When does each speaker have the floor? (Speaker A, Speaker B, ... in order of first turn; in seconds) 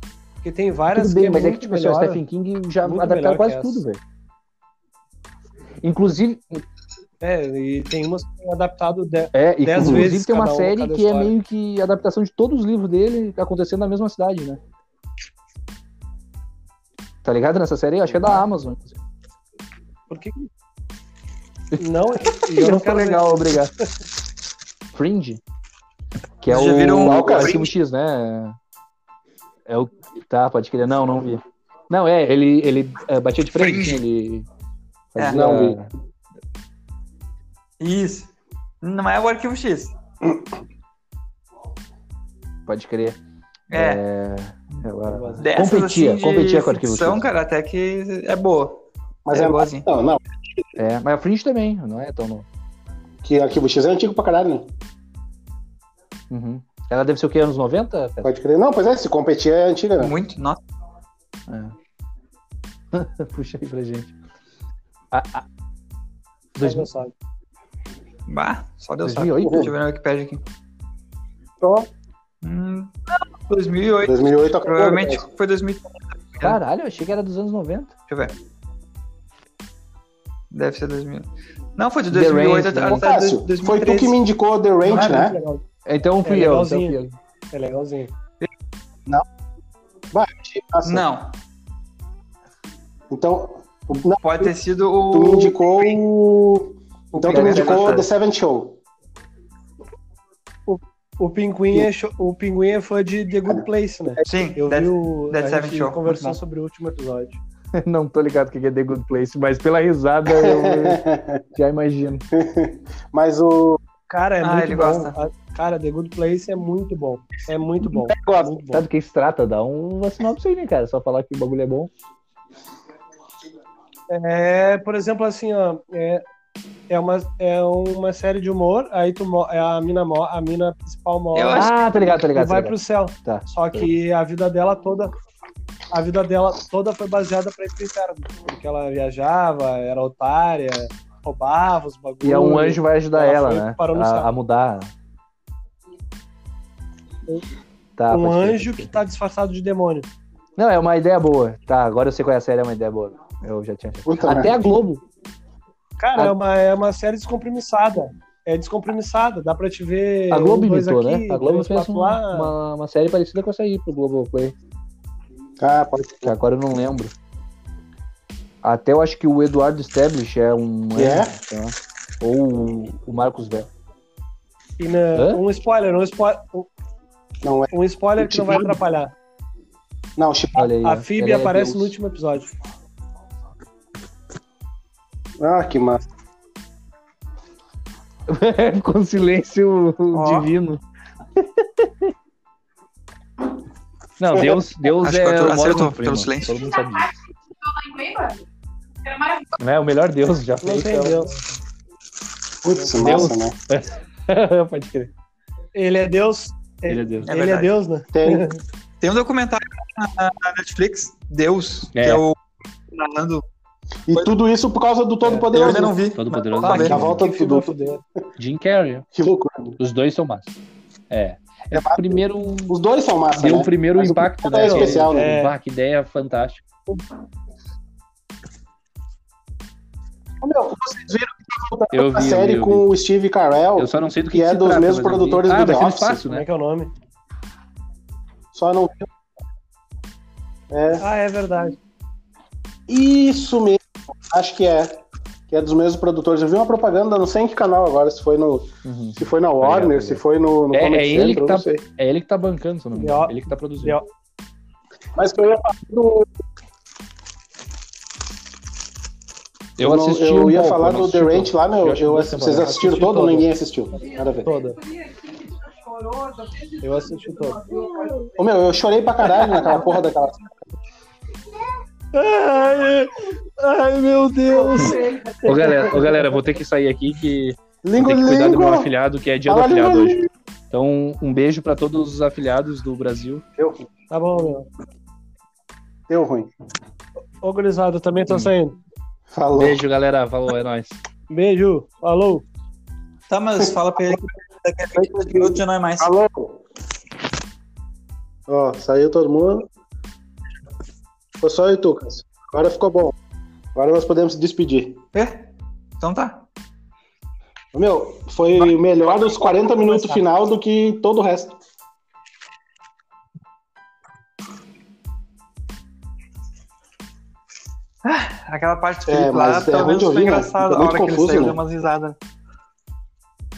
Speaker A: 0.4-2.2, 2.8-3.8, 7.2-11.3, 18.1-18.4, 20.1-20.5, 21.8-23.4, 45.0-45.5, 66.6-67.1, 84.9-85.6, 86.2-87.0, 87.5-88.1, 100.7-107.4, 114.1-118.8, 124.1-126.2, 126.9-135.1, 135.9-144.3, 148.1-150.1, 156.0-162.5, 174.8-176.7, 177.7-179.1, 180.7-182.5, 200.6-201.4, 202.7-203.3, 205.7-208.6, 215.2-215.8, 216.6-218.0, 224.6-225.5, 236.3-236.9, 241.0-241.8, 252.9-254.1, 264.4-264.8, 266.8-268.3, 269.2-269.8, 272.1-276.2, 284.1-284.7, 287.4-288.8, 291.3-292.4, 309.9-310.2
Speaker B: 0.9-4.0, 5.8-6.6, 9.3-14.6, 17.2-19.0, 21.7-23.7, 24.9-25.4, 26.4-28.6, 29.7-34.5, 35.1-35.9, 42.7-43.2, 43.7-47.3, 50.8-52.5, 56.3-58.3, 61.5-61.7, 62.9-64.1, 65.1-65.4, 66.6-66.9, 69.0-69.7, 76.4-77.9, 82.1-83.1, 85.8-87.2, 97.3-98.1, 107.7-111.0, 111.5-112.2, 118.7-121.9, 131.6-133.9, 142.2-144.9, 148.0-148.9, 150.6-155.0, 160.3-164.5, 166.2-167.1, 168.6-173.7, 175.1-175.4, 180.6-181.9, 188.3-190.8, 191.4-192.1, 194.2-197.1, 199.6-201.2, 202.9-205.1, 206.9-207.3, 211.9-212.2, 216.1-217.3, 218.4-219.1, 219.8-220.5, 221.1-222.7, 223.3-226.6, 231.9-232.9, 233.8-236.4, 248.8-254.0, 259.8-263.5, 274.7-283.4, 289.5-291.0
Speaker C: 9.8-10.1, 27.0-27.6, 35.3-35.8, 49.2-50.6, 53.2-54.7, 58.2-60.1, 71.6-71.9, 74.0-75.2, 82.9-85.4, 90.1-91.0, 93.1-94.5, 95.1-98.8, 103.5-104.2, 110.3-111.4, 112.3-113.8, 118.0-118.6, 154.1-154.7, 165.6-166.3, 170.9-171.3, 177.4-178.7, 180.2-180.7, 185.4-186.1, 194.3-194.6, 202.6-203.5, 208.1-208.5, 214.1-216.0, 216.8-217.8, 219.1-219.8, 221.7-225.3, 230.4-236.2, 238.5-239.1, 240.7-241.0, 242.9-251.8, 255.1-256.3, 259.8-264.5, 268.4-270.5, 277.8-278.9, 279.4-280.3, 283.6-283.9, 286.1-286.5, 289.3-289.8, 293.6-294.2, 294.9-296.6, 298.5-299.7, 301.4-303.1, 303.7-305.0, 307.7-311.6, 319.1-321.6
Speaker D: 26.5-27.7, 33.6-34.0, 35.2-35.5, 37.8-38.3, 38.8-39.9, 43.7-44.0, 45.4-49.8, 60.0-60.6, 68.3-70.4, 72.4-76.6, 78.1-78.3, 80.5-84.2, 84.9-85.3, 90.8-91.3, 94.2-96.0, 97.1-98.0, 104.2-106.1, 114.4-115.2, 131.3-131.7, 190.1-190.5, 195.0-196.6, 207.2-207.8, 209.0-212.3, 212.9-213.4, 215.5-217.0, 293.3-296.1, 305.1-305.5, 306.0-306.4, 318.0-322.2
Speaker E: 196.6-198.4, 199.0-199.5, 263.9-268.2